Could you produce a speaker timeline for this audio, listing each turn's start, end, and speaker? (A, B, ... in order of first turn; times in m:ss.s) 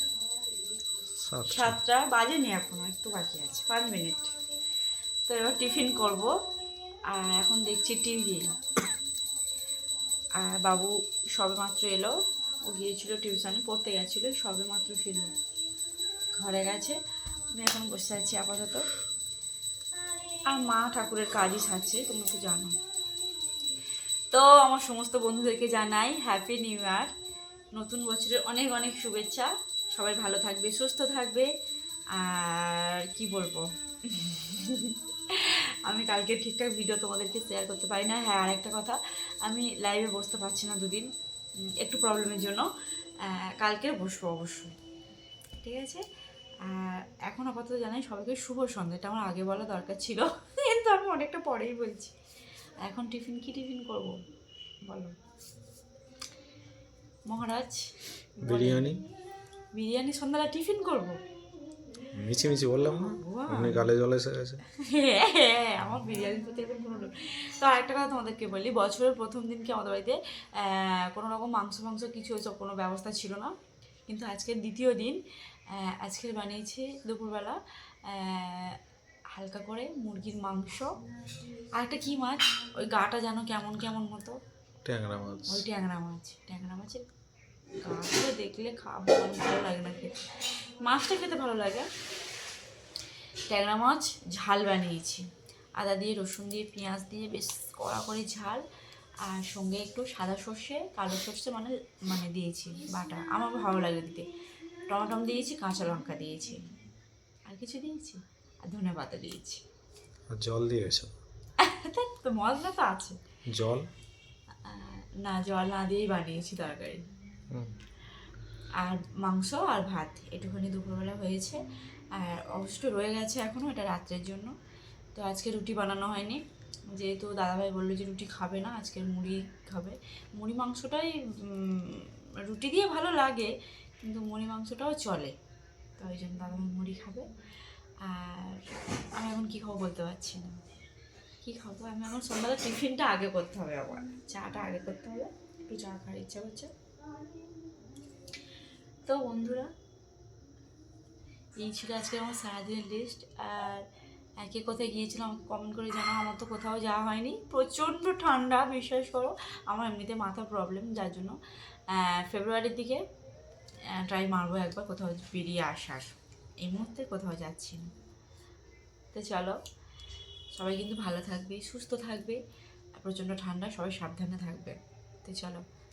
0:01.2-0:01.8 A
0:01.5-0:04.3 B
0:05.2-0:06.3 B
0:07.1-0:08.5 B
0:10.4-0:15.3 B
0:16.3-0:17.0 B
0:17.5-0:18.8 B
0:20.5-0:22.8 B
0:24.3-0:27.1 B
0:27.7-0:31.5 B
0:32.1-0:41.1 B
0:41.7-0:42.7 B
0:43.2-0:44.7 B
0:45.6-0:46.0 B
0:46.6-0:52.1 B
0:52.8-0:54.2 B
0:54.8-0:55.1 B
0:57.2-0:59.0 B
0:58.4-0:59.0 A
0:59.7-1:01.2 B
1:02.1-1:04.6 A
1:02.9-1:03.9 B
1:04.7-1:13.5 B
1:14.1-1:15.2 B
1:15.7-1:18.8 B
1:19.3-1:20.9 B
1:21.8-1:24.4 B
1:24.8-1:25.6 A
1:25.5-1:27.0 B
1:27.8-1:31.9 B
1:33.5-1:35.2 B
1:35.8-1:38.6 B
1:39.2-1:44.2 B
1:44.9-1:46.6 B
1:47.4-1:49.6 B
1:50.3-1:51.1 A
1:51.6-1:53.2 B
1:53.5-1:53.9 A
1:54.6-1:57.0 B
1:58.8-2:01.6 B
2:02.1-2:04.5 B
2:05.1-2:06.4 B
2:06.9-2:15.4 B
2:16.0-2:17.3 B
2:18.0-2:20.6 B
2:21.4-2:26.7 B
2:29.0-2:29.7 B
2:31.6-2:33.9 B
2:34.4-2:41.4 B
2:41.9-2:43.0 B
2:43.9-2:47.9 B
2:49.1-2:49.6 B
2:50.5-2:52.4 B
2:53.0-2:55.6 B